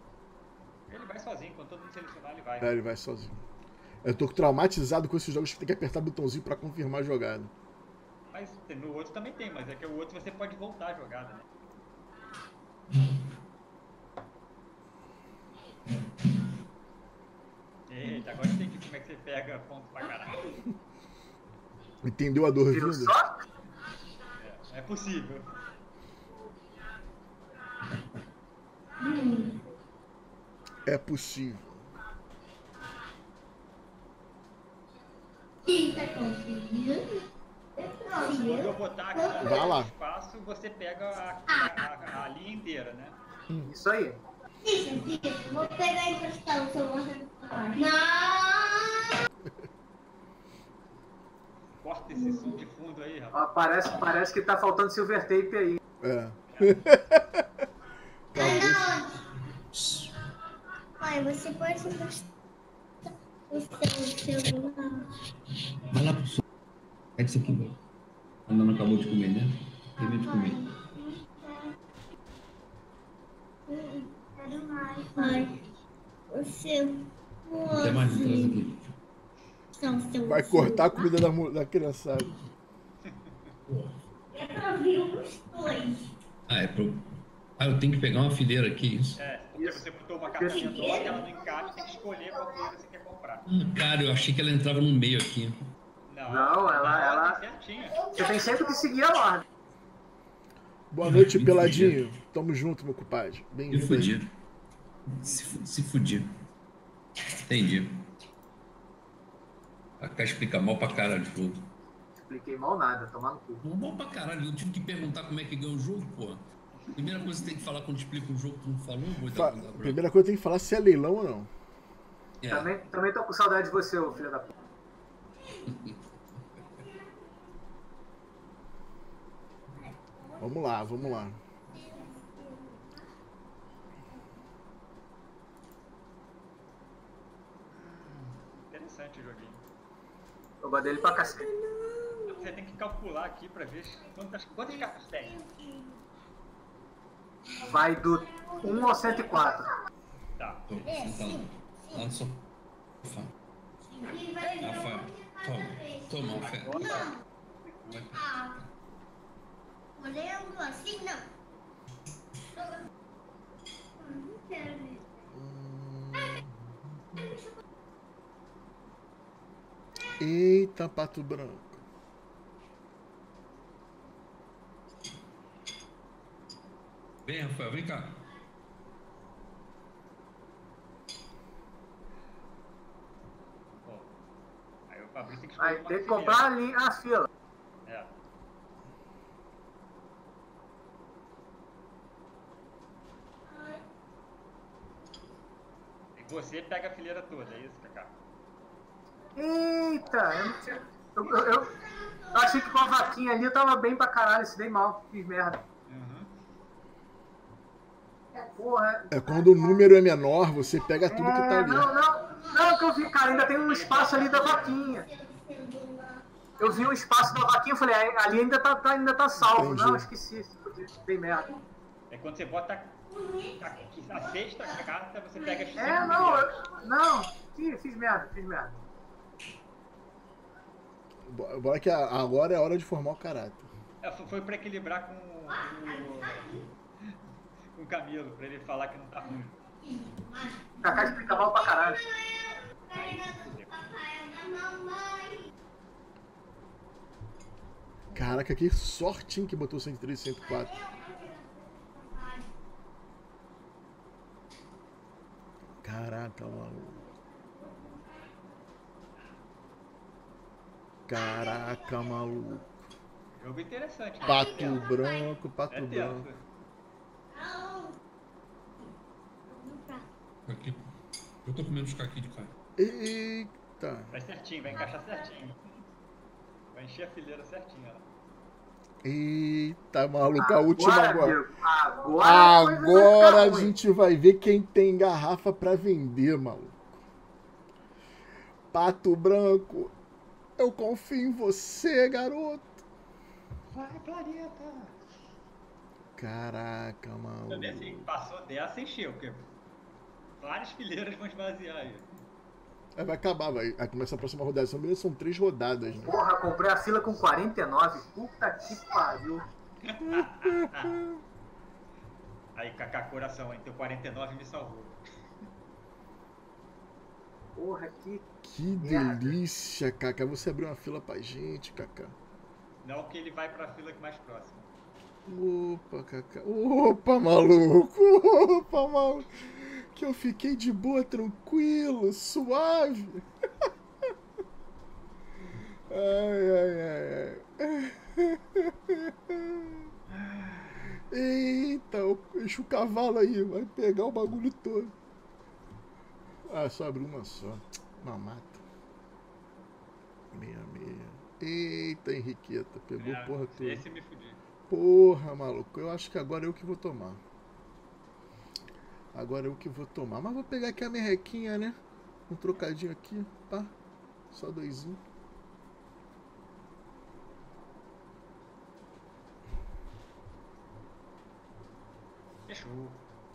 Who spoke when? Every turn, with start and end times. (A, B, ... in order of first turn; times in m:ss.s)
0:00.9-0:02.8 A
0:02.6-0:03.4 B
0:04.0-0:07.5 B
0:08.3-0:11.4 A
0:17.9-0:20.5 A
0:22.0-0:23.1 B
0:22.7-0:23.3 C
0:24.4-0:25.5 A
0:29.0-0:29.6 D
0:30.8-0:31.8 B
0:35.6-0:37.2 D
0:37.8-0:39.6 D
0:38.2-0:43.1 A
0:39.4-0:39.9 B
0:43.6-0:44.2 C
0:44.6-0:49.1 D
0:51.8-0:53.4 A
0:52.2-0:52.5 D
0:53.3-0:55.8 C
0:56.0-0:57.6 B
0:56.5-0:56.8 A
0:58.3-0:58.9 B
0:58.4-0:59.2 D
0:59.7-1:00.1 E
1:01.0-1:02.2 D
1:03.5-1:05.1 D
1:05.9-1:06.4 E
1:07.2-1:07.8 E
1:08.5-1:10.7 E
1:10.0-1:11.7 D
1:13.7-1:15.6 D
1:16.3-1:18.6 D
1:17.7-1:18.8 E
1:19.8-1:21.2 D
1:20.2-1:22.4 B
1:23.0-1:23.5 A
1:23.7-1:24.0 E
1:24.3-1:26.1 D
1:26.5-1:29.2 E
1:29.2-1:33.4 A
1:29.6-1:29.8 C
1:30.3-1:31.1 C
1:30.6-1:31.9 D
1:33.4-1:35.6 E
1:36.1-1:38.0 A
1:36.3-1:37.4 C
1:38.1-1:39.4 C
1:40.9-1:44.2 B
1:41.0-1:42.0 E
1:43.7-1:44.3 E
1:45.1-1:46.3 E
1:45.2-1:45.5 A
1:47.4-1:47.9 E
1:50.0-1:51.6 E
1:52.2-1:53.6 C
1:53.6-2:00.0 E
1:59.3-2:01.5 B
2:02.4-2:02.7 E
2:02.5-2:04.5 C
2:05.7-2:06.0 E
2:09.8-2:10.4 D
2:10.4-2:11.4 B
2:11.7-2:13.0 D
2:17.7-2:19.6 A
2:20.6-2:21.5 C
2:21.0-2:22.4 D
2:22.3-2:25.4 A
2:25.2-2:26.0 D
2:27.6-2:29.2 D
2:27.6-2:29.7 C
2:30.4-2:30.6 A
2:30.7-2:32.4 E
2:30.8-2:32.0 D
2:33.0-2:33.3 E
2:33.9-2:36.1 D
2:34.6-2:37.0 E
2:36.4-2:37.1 A
2:36.8-2:37.1 D
2:37.8-2:38.2 E
2:38.1-2:38.5 D
2:40.0-2:41.2 D
2:44.0-2:45.0 D
2:45.3-2:46.5 B
2:50.2-2:51.8 B
2:57.2-2:58.2 E
3:03.7-3:04.1 A
3:04.9-3:06.5 A
3:05.6-3:07.3 C
3:07.8-3:08.2 A
3:16.2-3:18.2 A
3:19.4-3:21.8 C
3:22.3-3:25.6 C
3:25.9-3:26.3 A
3:28.6-3:29.1 C
3:29.1-3:31.9 B
3:29.2-3:29.8 D
3:31.1-3:35.0 C
3:32.3-3:32.8 D
3:33.2-3:34.8 A
3:34.8-3:36.2 D
3:36.6-3:41.5 C
3:39.4-3:40.1 B
3:42.1-3:43.0 A
3:43.1-3:44.7 D
3:43.6-3:46.5 A
3:45.6-3:45.9 D
3:45.8-3:48.8 C
3:51.2-3:53.7 B
3:54.0-3:57.2 A
3:55.6-3:56.6 D
3:57.7-3:59.6 A
3:59.8-4:05.5 D
4:00.8-4:02.0 C
4:02.9-4:03.8 A
4:08.1-4:10.7 B
4:10.4-4:12.5 D
4:15.8-4:17.0 B
4:17.0-4:18.4 D
4:21.1-4:22.8 B
4:21.2-4:22.1 D
4:23.3-4:24.9 A
4:24.2-4:26.3 B
4:24.5-4:25.3 D
4:25.7-4:26.4 A
4:27.3-4:28.0 D
4:29.5-4:30.0 D
4:30.4-4:30.8 E
4:31.4-4:32.5 E
4:32.8-4:34.1 B
4:34.1-4:35.6 A
4:36.7-4:38.1 A
4:39.0-4:41.4 B
4:40.4-4:43.7 C
4:42.2-4:47.0 B
4:48.7-4:49.9 B
4:50.6-4:52.8 B
4:53.7-4:55.0 A
4:56.2-4:58.1 B
4:57.5-4:59.5 A
5:00.4-5:02.1 A
5:03.0-5:06.2 B
5:06.0-5:09.4 C
5:09.8-5:11.0 A
5:10.2-5:11.1 B
5:12.5-5:15.0 A
5:17.6-5:18.2 C
5:18.4-5:22.1 B
5:18.8-5:19.3 C
5:22.8-5:24.7 A
5:25.3-5:33.3 B
5:35.9-5:39.9 B
5:41.1-5:44.9 B
5:46.5-5:48.6 B
5:50.3-5:53.8 B
5:53.0-5:54.4 A
5:54.7-5:57.2 B
5:59.1-6:01.8 B
6:02.3-6:03.7 B
6:04.3-6:05.0 B
6:12.4-6:13.0 A